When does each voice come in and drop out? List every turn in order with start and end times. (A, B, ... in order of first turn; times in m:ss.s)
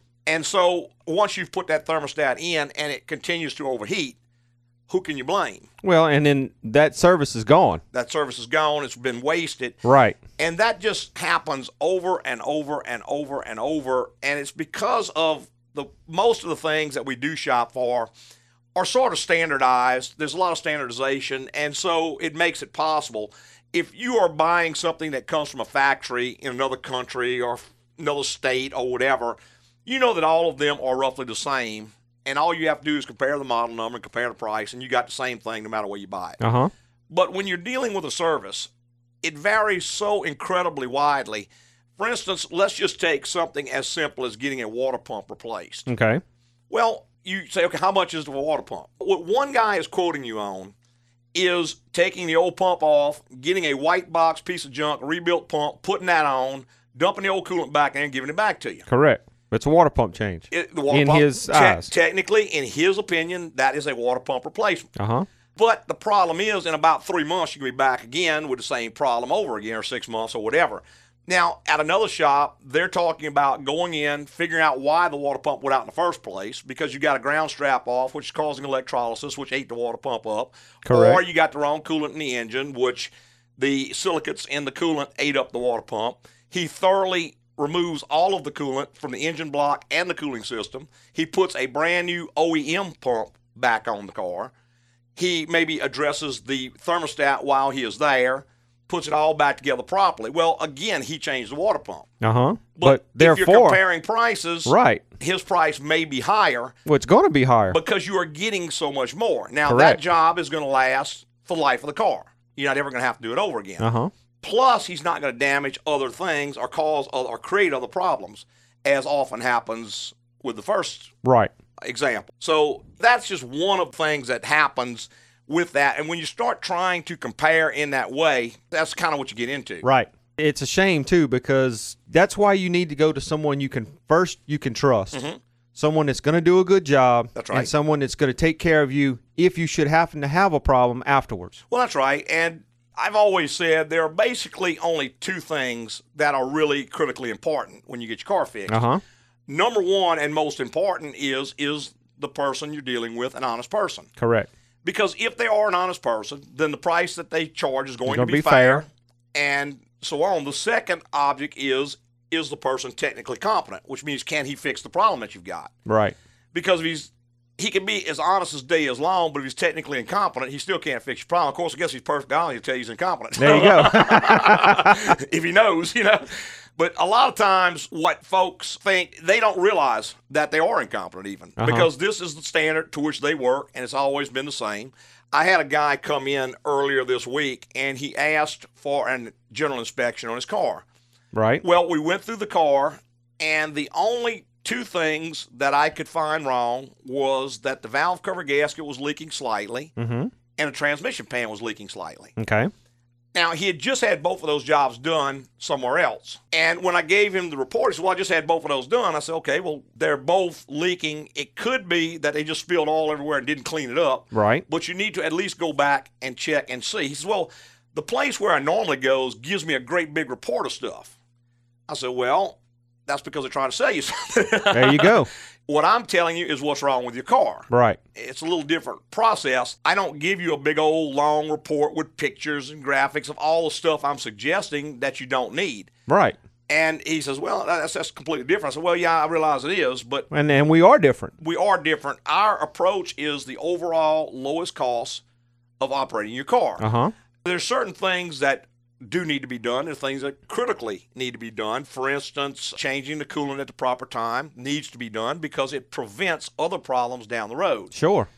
0:00.3-0:04.2 A
0:04.9-0:05.7 A
0:05.8-0:07.8 B
0:07.9-0:09.8 A
0:09.8-0:10.2 B
0:10.4-0:18.1 A
0:18.8-0:36.4 A
0:36.4-0:36.7 B
0:37.1-0:38.7 A
0:39.2-0:45.9 A
0:45.9-0:46.2 B
0:46.7-0:50.7 A
0:51.3-0:58.8 A
0:58.9-1:01.9 B
1:00.5-1:04.9 A
1:05.0-1:05.3 B
1:05.6-1:34.5 A
1:20.9-1:21.2 B
1:35.2-1:42.1 A
1:42.2-1:43.8 B
1:42.8-1:46.8 A
1:44.7-1:45.0 B
1:46.9-1:47.8 B
1:47.7-1:53.9 A
1:49.7-1:50.0 B
1:53.8-1:54.1 B
1:54.4-2:01.1 A
2:01.2-2:01.5 B
2:01.8-2:09.8 A
2:09.8-2:15.2 B
2:15.1-2:15.4 A
2:15.8-2:21.6 B
2:17.4-2:17.7 A
2:21.7-2:28.8 A
2:28.7-2:29.0 B
2:29.5-2:34.1 A
2:34.2-2:34.5 B
2:34.8-2:45.7 A
2:38.1-2:38.8 B
2:45.9-2:46.2 B
2:46.5-3:10.8 A
2:53.4-2:55.0 B
3:01.6-3:01.9 B
3:11.3-3:11.6 B
3:11.6-3:19.9 A
3:20.0-3:20.3 B
3:20.6-3:22.3 A
3:22.4-3:22.7 B
3:23.3-3:41.1 A
3:34.3-3:34.6 B
3:41.9-3:55.9 A
3:44.7-3:45.3 B
3:47.7-3:48.0 B
3:56.1-3:56.4 B
3:56.7-4:00.3 A
4:00.3-4:01.3 B
4:01.4-4:05.2 A
4:05.8-4:06.8 A
4:06.8-4:07.1 B
4:07.4-4:17.9 A
4:17.9-4:18.3 B